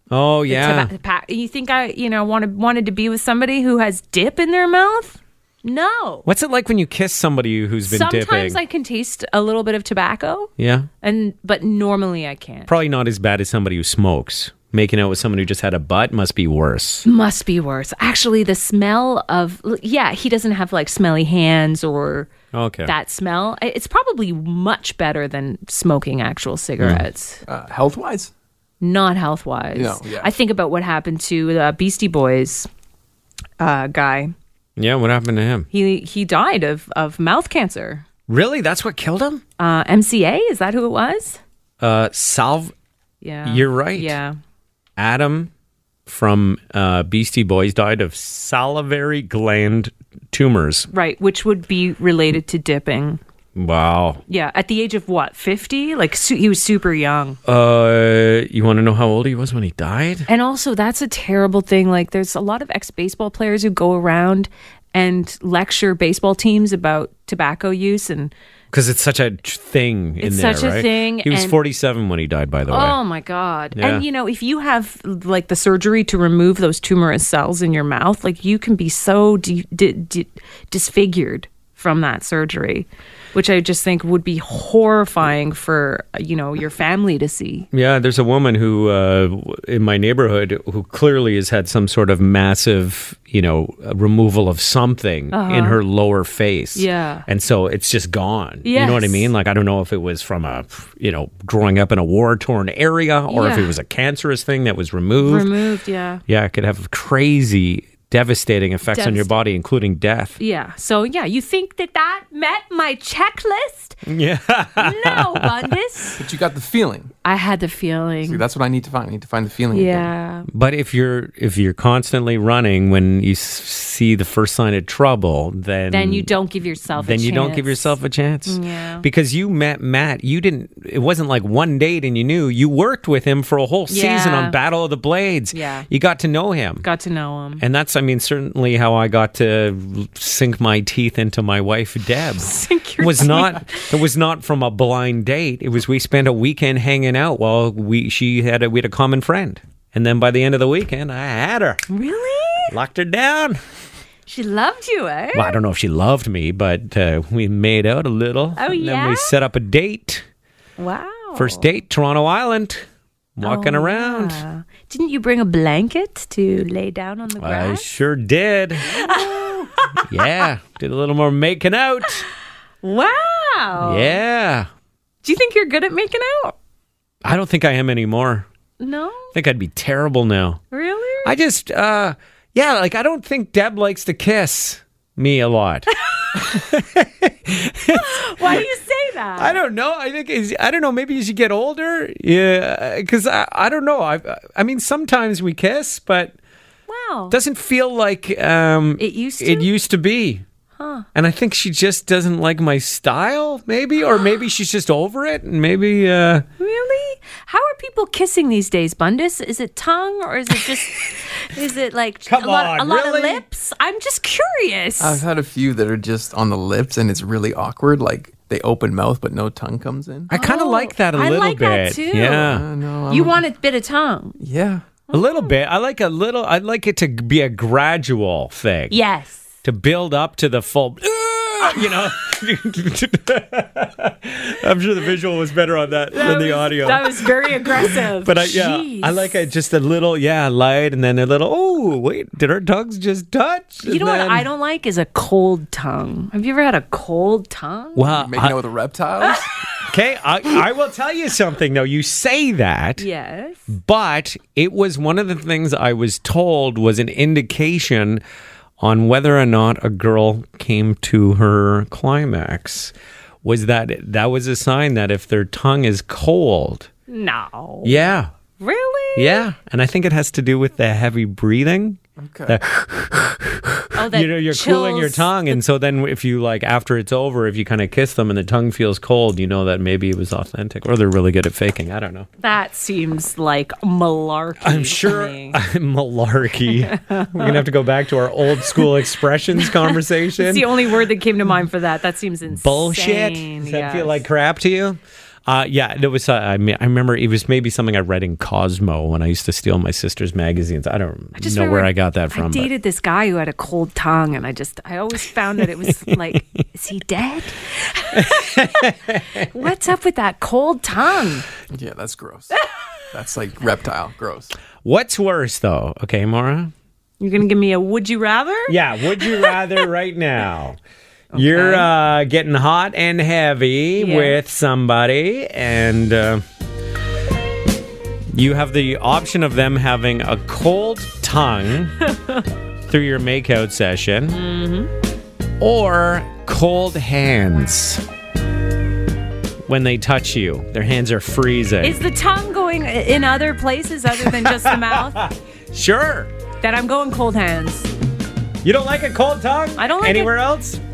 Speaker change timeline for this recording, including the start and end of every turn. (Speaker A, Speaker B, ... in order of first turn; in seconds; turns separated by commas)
Speaker A: 0.1-0.9, Speaker B: 0.5-6.3, Speaker A: 6.3-8.6, Speaker B: 7.9-10.5, Speaker A: 10.6-10.9, Speaker B: 11.0-12.7, Speaker A: 12.7-17.1, Speaker B: 17.1-22.3, Speaker A: 22.5-22.9, Speaker B: 22.9-27.4, Speaker C: 27.5-28.3, Speaker B: 28.8-32.7, Speaker C: 29.7-30.3, Speaker B: 33.6-34.3, Speaker A: 34.8-35.7, Speaker B: 35.7-38.0, Speaker A: 38.3-39.4, Speaker B: 39.6-41.4, Speaker A: 41.8-42.7, Speaker B: 43.2-44.4, Speaker A: 43.5-44.2, Speaker A: 45.0-45.5, Speaker A: 46.1-50.9, Speaker B: 50.9-53.2, Speaker A: 53.5-54.2, Speaker B: 54.3-57.4, Speaker A: 57.5-60.3, Speaker B: 60.3-68.3, Speaker A: 68.7-73.0, Speaker B: 70.2-71.6, Speaker B: 72.7-87.7, Speaker A: 73.7-74.0, Speaker A: 87.7-105.5, Speaker B: 95.3-95.8, Speaker B: 96.7-97.3, Speaker B: 98.6-99.3, Speaker B: 103.3-103.7, Speaker B: 105.2-106.2, Speaker A: 106.3-110.4, Speaker B: 108.9-109.3, Speaker B: 110.4-114.0, Speaker A: 114.0-115.7, Speaker B: 114.8-116.2, Speaker C: 116.2-117.1, Speaker B: 117.2-118.4, Speaker C: 118.2-120.1, Speaker B: 119.7-120.5, Speaker A: 120.5-126.3, Speaker B: 125.9-129.1, Speaker A: 126.9-136.9, Speaker B: 133.9-134.6, Speaker B: 135.5-135.9, Speaker B: 136.8-137.6, Speaker A: 137.6-151.8, Speaker B: 142.4-143.9, Speaker B: 151.9-152.7, Speaker A: 152.7-153.6, Speaker B: 154.3-155.6, Speaker A: 155.3-160.3, Speaker B: 158.6-159.3, Speaker B: 160.8-161.7, Speaker A: 161.3-164.4, Speaker B: 163.4-167.9, Speaker A: 167.4-168.9, Speaker B: 168.8-170.3, Speaker C: 168.9-169.8, Speaker A: 170.1-172.2, Speaker B: 172.8-174.2, Speaker A: 173.8-174.7, Speaker B: 175.2-176.6, Speaker A: 177.2-178.4, Speaker B: 178.8-179.3, Speaker A: 179.3-180.6, Speaker B: 180.7-181.3, Speaker A: 181.2-188.7, Speaker B: 185.9-186.4, Speaker B: 187.9-189.6, Speaker A: 189.4-196.3, Speaker B: 196.9-197.3, Speaker A: 197.3-200.4, Speaker B: 199.0-199.7, Speaker B: 200.8-201.1, Speaker A: 201.1-206.4, Speaker B: 206.6-215.2, Speaker A: 212.3-213.4, Speaker C: 215.0-220.3, Speaker A: 220.3-222.7, Speaker B: 220.3-222.6, Speaker C: 222.4-223.4, Speaker B: 223.1-224.4, Speaker C: 224.4-224.9, Speaker B: 225.1-225.5, Speaker A: 225.1-228.9, Speaker B: 228.9-229.4, Speaker A: 229.6-244.5, Speaker B: 236.1-239.4, Speaker B: 243.8-248.1, Speaker A: 247.9-248.6, Speaker C: 248.1-249.5, Speaker A: 249.8-253.1, Speaker B: 253.0-253.7, Speaker A: 253.7-258.2, Speaker A: 258.8-266.9, Speaker B: 267.1-268.0, Speaker A: 267.8-268.3, Speaker B: 268.6-269.4, Speaker A: 269.2-282.3, Speaker C: 272.2-272.6, Speaker B: 273.9-275.4, Speaker B: 282.4-285.6, Speaker A: 284.6-290.7, Speaker B: 286.8-287.6, Speaker B: 289.6-294.2, Speaker A: 292.5-302.7, Speaker B: 301.4-308.8, Speaker A: 305.6-306.6, Speaker A: 308.1-309.5, Speaker B: 309.4-311.5, Speaker C: 311.7-312.5, Speaker C: 313.1-314.5, Speaker A: 314.8-316.7, Speaker B: 317.2-319.6, Speaker A: 318.7-320.8, Speaker B: 321.3-321.9, Speaker A: 321.3-326.4, Speaker B: 323.9-324.4, Speaker A: 328.3-332.0, Speaker B: 332.1-332.4, Speaker A: 332.9-334.4, Speaker B: 334.3-334.9, Speaker A: 335.6-338.0, Speaker A: 339.7-342.0, Speaker B: 341.8-345.2, Speaker A: 344.2-346.3, Speaker B: 346.6-347.9, Speaker A: 348.6-350.8, Speaker B: 349.8-350.4